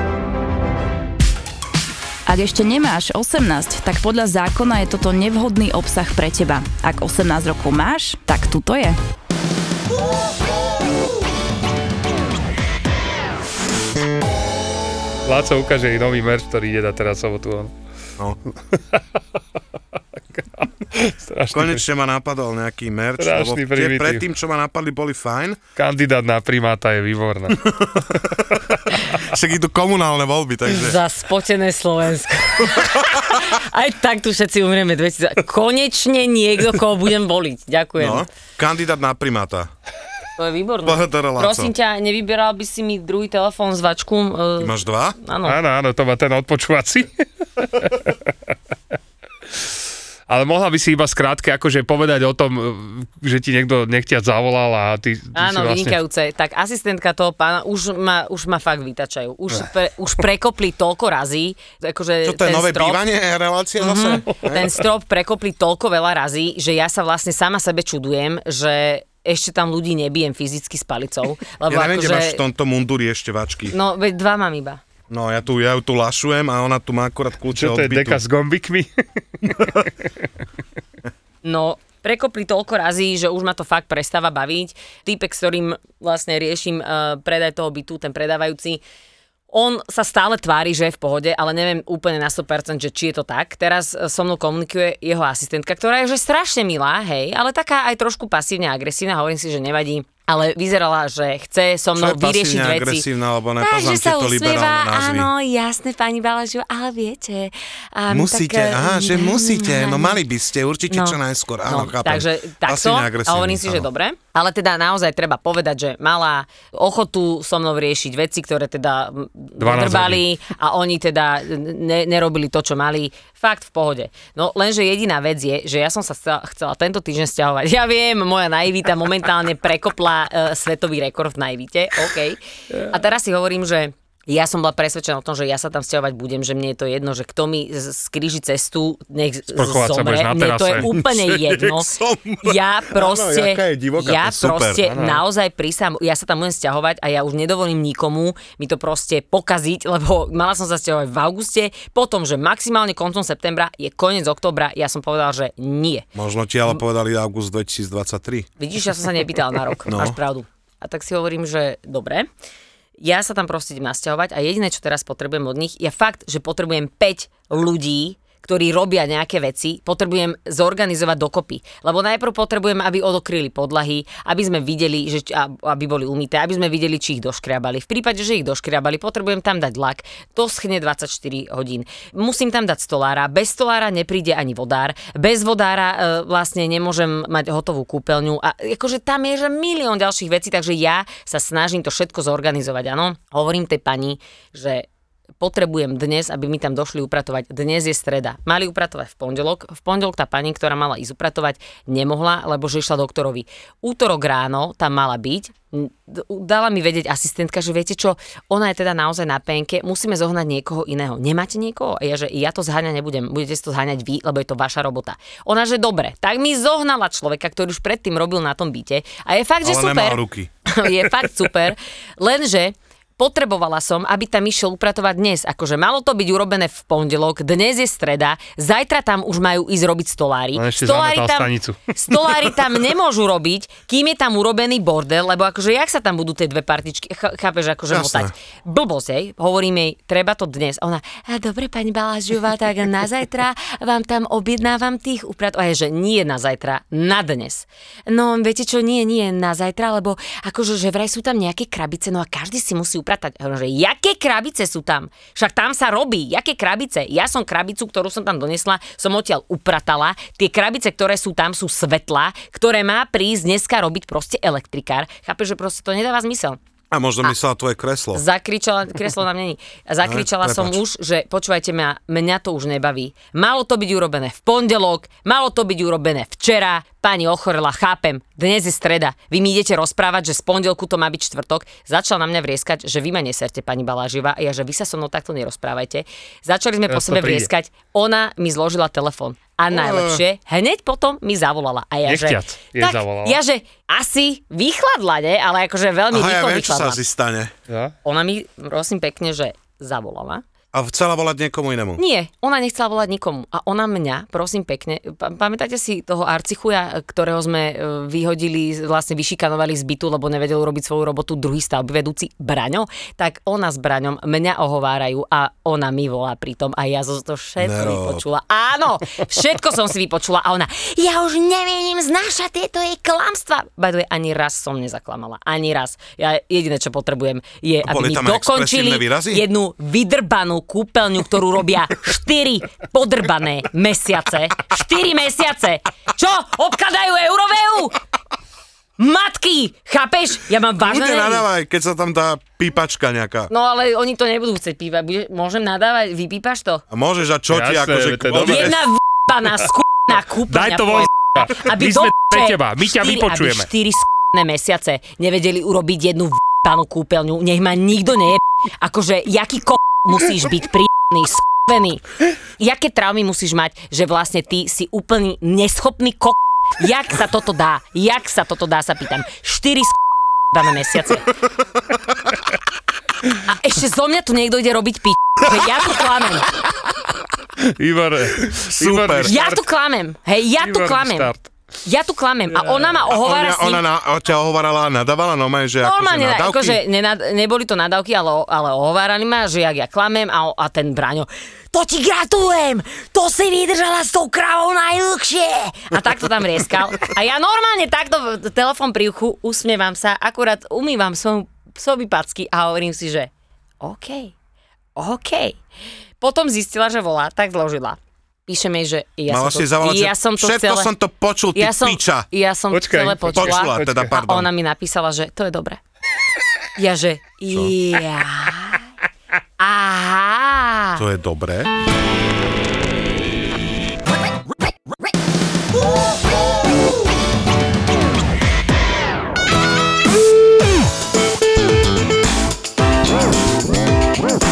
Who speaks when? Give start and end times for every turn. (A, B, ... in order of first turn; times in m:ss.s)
0:02.2-0:09.0 A
0:15.2-0:17.7 B
0:20.3-0:21.8 B
0:21.5-0:25.6 C
0:23.2-0:24.2 B
0:25.8-0:27.6 B
0:27.6-0:28.4 C
0:29.1-0:31.0 C
0:30.6-0:38.2 D
0:32.7-0:33.2 C
0:38.0-0:39.7 C
0:40.4-0:45.6 D
0:40.8-0:41.7 C
0:44.6-0:45.2 C
0:45.4-0:48.1 B
0:50.3-0:56.0 B
0:55.3-1:03.0 D
1:02.2-1:04.8 C
1:03.8-1:12.4 D
1:11.7-1:13.7 C
1:13.7-1:14.8 D
1:15.1-1:18.2 C
1:17.5-1:18.9 B
1:19.4-1:19.9 B
1:21.4-1:28.8 D
1:29.5-1:43.0 D
1:42.0-1:45.3 C
1:43.6-1:50.2 D
1:48.1-1:53.9 C
1:50.9-2:21.9 D
1:59.6-2:00.2 B
2:19.5-2:20.9 B
2:20.8-2:25.1 C
2:22.4-2:36.1 D
2:36.1-2:38.5 C
2:38.6-2:42.3 D
2:39.8-2:40.2 C
2:43.0-3:14.8 D
3:15.4-4:26.6 D
3:39.6-3:40.5 C
3:50.6-3:51.8 B
3:57.9-3:58.3 C
4:26.9-4:28.2 C
4:28.1-4:57.0 D
4:30.0-4:30.8 C
4:46.9-4:47.5 B
4:49.7-4:50.2 C
4:52.0-4:53.4 B
4:56.1-4:57.5 C
4:57.7-4:57.9 B
4:58.0-5:00.4 D
5:00.7-5:02.0 C
5:02.0-5:38.0 D
5:17.6-5:18.2 C
5:27.8-5:29.4 C
5:39.0-5:41.4 D
5:40.8-5:43.5 C
5:43.5-5:46.8 D
5:46.9-5:48.8 C
5:47.5-5:48.8 B
5:48.4-6:02.0 D
5:50.5-5:53.7 B
6:02.6-6:10.0 D
6:10.5-6:11.3 D
6:13.4-6:16.5 D
6:17.6-6:19.6 B
6:18.8-6:19.3 C
6:19.2-6:21.3 D
6:20.6-6:21.5 B
6:21.8-6:23.8 D
6:22.5-6:22.9 B
6:23.0-6:26.8 C
6:25.8-6:43.3 D
6:43.8-6:44.3 D
6:45.0-6:45.6 D
6:46.2-6:50.9 D
6:49.3-6:52.3 C
6:51.5-6:55.8 D
6:52.7-6:54.2 B
6:53.3-6:54.5 C
6:56.8-6:58.8 D
6:59.6-7:01.0 D
7:01.0-7:01.7 C